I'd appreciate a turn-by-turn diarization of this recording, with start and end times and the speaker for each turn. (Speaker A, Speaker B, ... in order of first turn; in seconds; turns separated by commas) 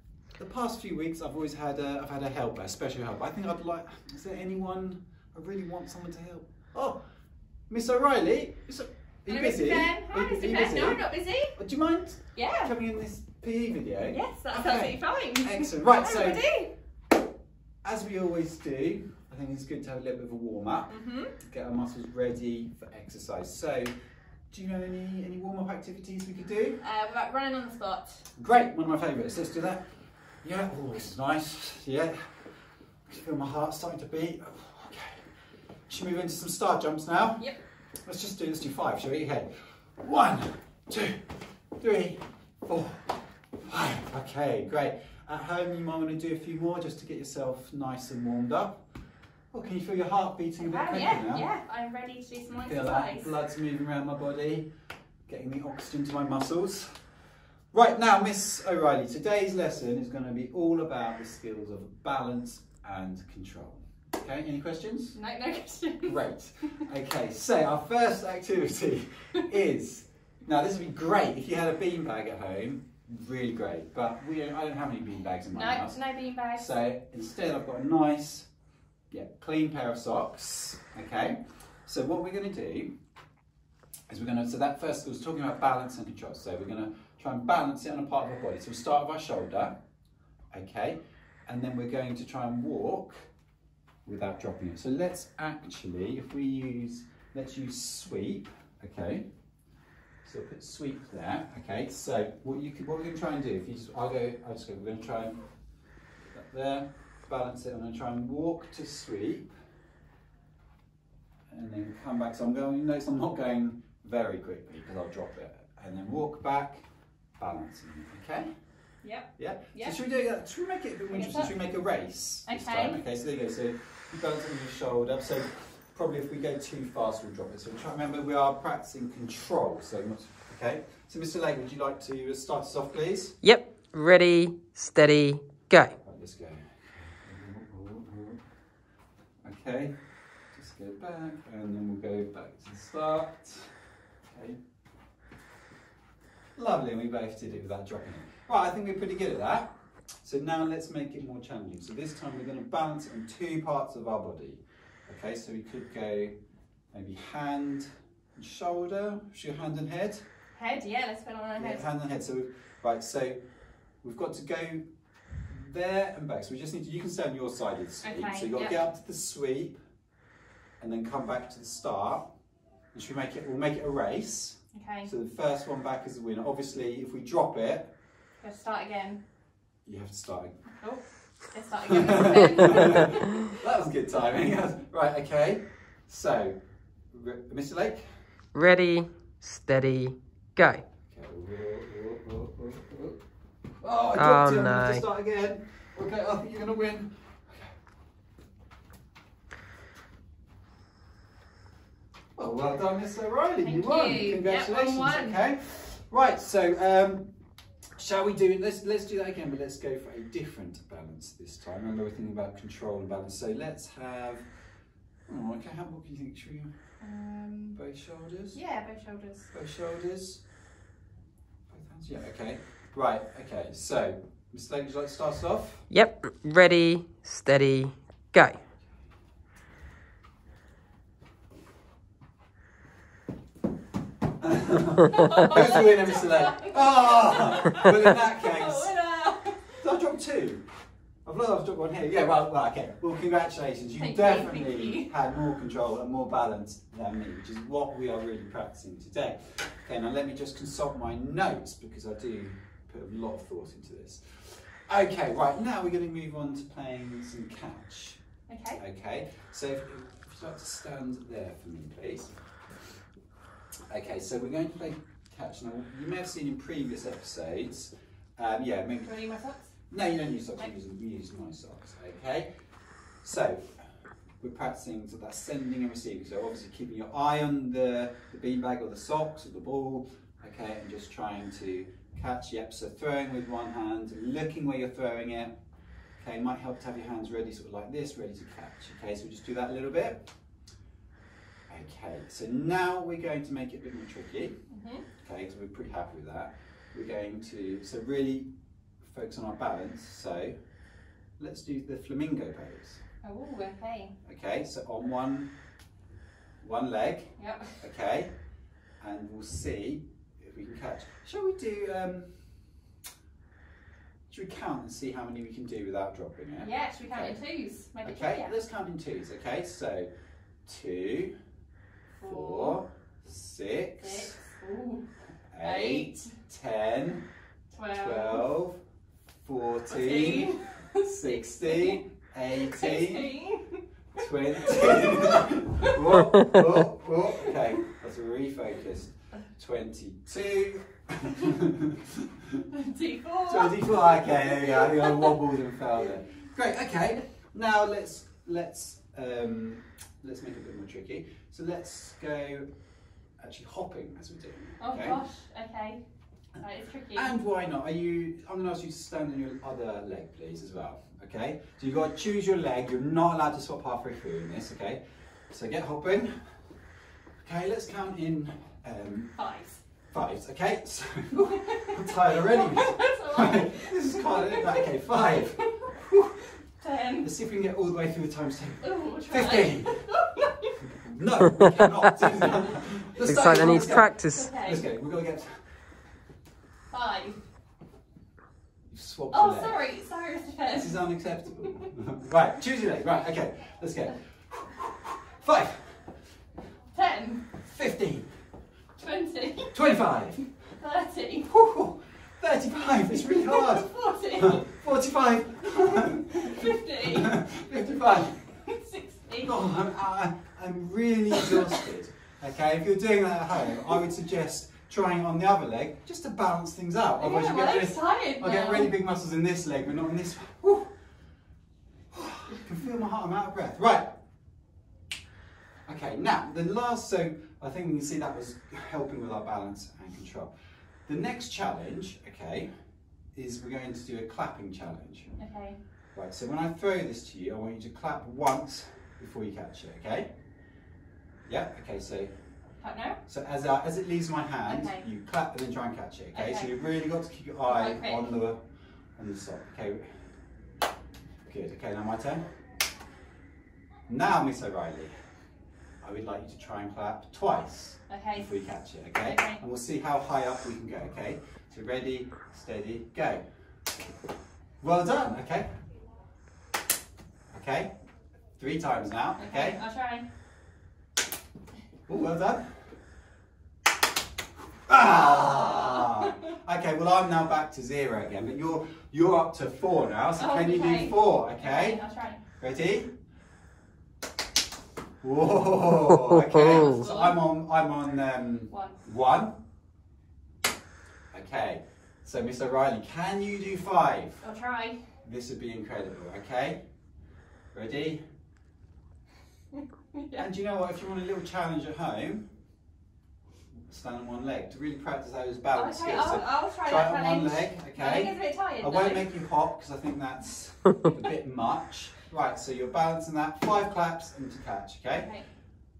Speaker A: 0.4-7.0, Speaker A: 7.7-16.4, Speaker B: 9.3-11.5, Speaker B: 12.3-12.7, Speaker B: 14.1-16.7, Speaker A: 17.8-23.9, Speaker B: 20.9-21.3, Speaker A: 24.5-26.8, Speaker B: 26.8-28.2, Speaker A: 28.4-29.8, Speaker A: 30.4-32.2, Speaker A: 33.0-35.3, Speaker A: 35.9-37.5, Speaker A: 38.0-39.5, Speaker A: 40.0-41.2, Speaker A: 41.8-43.1, Speaker A: 43.7-48.8, Speaker A: 49.5-51.5, Speaker B: 50.6-53.3, Speaker A: 52.6-54.7, Speaker A: 55.3-56.9, Speaker A: 57.7-65.2, Speaker B: 65.1-66.2, Speaker A: 66.0-76.0, Speaker B: 75.5-76.7, Speaker A: 76.5-78.5, Speaker A: 79.1-82.9, Speaker A: 84.1-89.8, Speaker A: 90.5-93.3, Speaker A: 94.1-99.3, Speaker A: 100.2-105.4, Speaker A: 106.3-109.5, Speaker A: 111.5-116.8, Speaker A: 117.4-118.5, Speaker B: 119.0-120.0, Speaker A: 119.4-133.4, Speaker B: 121.1-121.6, Speaker B: 122.5-123.0, Speaker C: 133.4-136.0, Speaker A: 136.0-138.4, Speaker A: 139.4-140.0, Speaker A: 140.5-144.6, Speaker A: 146.6-149.7, Speaker A: 150.2-156.3, Speaker A: 156.9-160.2, Speaker B: 160.5-161.8, Speaker A: 161.6-163.4, Speaker A: 164.0-164.8, Speaker A: 165.5-169.8, Speaker B: 168.0-168.8, Speaker A: 170.8-172.3, Speaker A: 172.9-177.9, Speaker B: 174.7-175.1, Speaker B: 178.4-179.2, Speaker A: 179.8-180.6, Speaker B: 180.8-183.3, Speaker A: 181.9-186.6, Speaker A: 187.1-188.2, Speaker C: 188.5-190.8, Speaker A: 191.1-193.2, Speaker A: 193.8-197.8, Speaker C: 194.2-195.0, Speaker A: 202.3-207.3, Speaker B: 203.6-205.4, Speaker A: 208.0-214.5, Speaker A: 215.3-216.7, Speaker B: 217.0-217.8, Speaker A: 217.8-218.6, Speaker B: 218.5-219.5, Speaker A: 219.5-220.4, Speaker A: 221.7-225.9, Speaker C: 225.9-228.6, Speaker A: 234.4-238.9, Speaker B: 235.1-239.8, Speaker A: 239.8-240.6, Speaker A: 241.2-258.2, Speaker B: 244.0-245.1, Speaker B: 258.5-258.8, Speaker A: 258.8-262.3, Speaker A: 263.9-269.1, Speaker B: 269.0-269.7, Speaker A: 269.9-272.5, Speaker A: 273.2-273.8, Speaker A: 274.4-285.6, Speaker A: 286.2-290.2, Speaker A: 291.7-294.6, Speaker B: 294.7-295.1, Speaker A: 295.2-298.5, Speaker A: 299.0-300.6, Speaker A: 301.4-303.0, Speaker B: 303.2-304.1, Speaker A: 304.2-305.5, Speaker A: 306.6-308.3, Speaker B: 307.4-307.8, Speaker A: 309.0-312.3, Speaker A: 314.3-317.4, Speaker B: 316.6-318.5, Speaker A: 318.0-320.1, Speaker A: 320.6-321.4, Speaker B: 322.1-322.8, Speaker A: 322.2-324.4, Speaker B: 324.0-325.1, Speaker A: 325.5-327.2, Speaker B: 325.6-326.3, Speaker B: 327.7-328.5, Speaker A: 327.9-328.8, Speaker A: 329.4-333.3, Speaker B: 329.9-332.0, Speaker B: 332.5-333.8, Speaker A: 334.1-342.5, Speaker B: 334.6-336.2, Speaker B: 342.7-345.5, Speaker A: 343.5-352.7, Speaker A: 353.4-355.2, Speaker B: 354.8-356.0, Speaker B: 356.6-357.3, Speaker A: 357.1-366.3, Speaker A: 367.4-369.3, Speaker B: 369.4-369.8, Speaker A: 370.1-376.4, Speaker B: 371.4-375.9, Speaker B: 376.8-377.3, Speaker A: 377.2-379.9, Speaker B: 378.8-380.7, Speaker A: 380.8-385.6, Speaker B: 383.2-384.9, Speaker C: 383.2-384.5, Speaker B: 386.9-387.4, Speaker A: 388.9-389.8, Speaker B: 389.3-391.0, Speaker A: 390.7-396.0, Speaker B: 396.9-397.4, Speaker A: 397.6-398.3, Speaker B: 399.0-400.0, Speaker A: 399.7-400.4, Speaker B: 400.8-401.5, Speaker A: 401.4-408.4, Speaker B: 403.1-404.6, Speaker B: 405.9-407.5, Speaker B: 408.5-409.6, Speaker A: 409.4-420.9, Speaker B: 417.2-418.9, Speaker A: 422.1-424.2, Speaker A: 425.9-430.5, Speaker A: 431.1-432.7, Speaker A: 433.3-435.3, Speaker B: 435.4-435.8, Speaker A: 436.1-440.3, Speaker A: 441.4-442.3, Speaker B: 442.8-443.2, Speaker A: 443.2-448.6, Speaker B: 444.7-445.0, Speaker B: 446.3-446.7, Speaker B: 447.7-448.3, Speaker A: 449.1-450.1, Speaker A: 451.4-452.4, Speaker A: 454.1-455.1, Speaker A: 456.0-463.4, Speaker B: 458.1-458.5, Speaker B: 459.2-459.6, Speaker A: 464.8-465.7, Speaker A: 467.5-467.9, Speaker A: 468.6-469.8, Speaker B: 469.4-470.2, Speaker A: 472.1-472.6, Speaker A: 474.9-482.0, Speaker B: 475.9-476.3, Speaker B: 480.4-482.4, Speaker A: 482.6-483.1, Speaker A: 485.2-489.6, Speaker C: 486.1-487.0, Speaker B: 486.5-487.4, Speaker B: 488.7-489.0, Speaker A: 491.3-494.4, Speaker B: 494.4-495.0, Speaker A: 495.2-496.8, Speaker A: 497.7-498.2, Speaker B: 500.1-500.5, Speaker A: 500.4-502.4, Speaker A: 503.9-515.3, Speaker B: 505.8-509.2, Speaker B: 515.2-515.5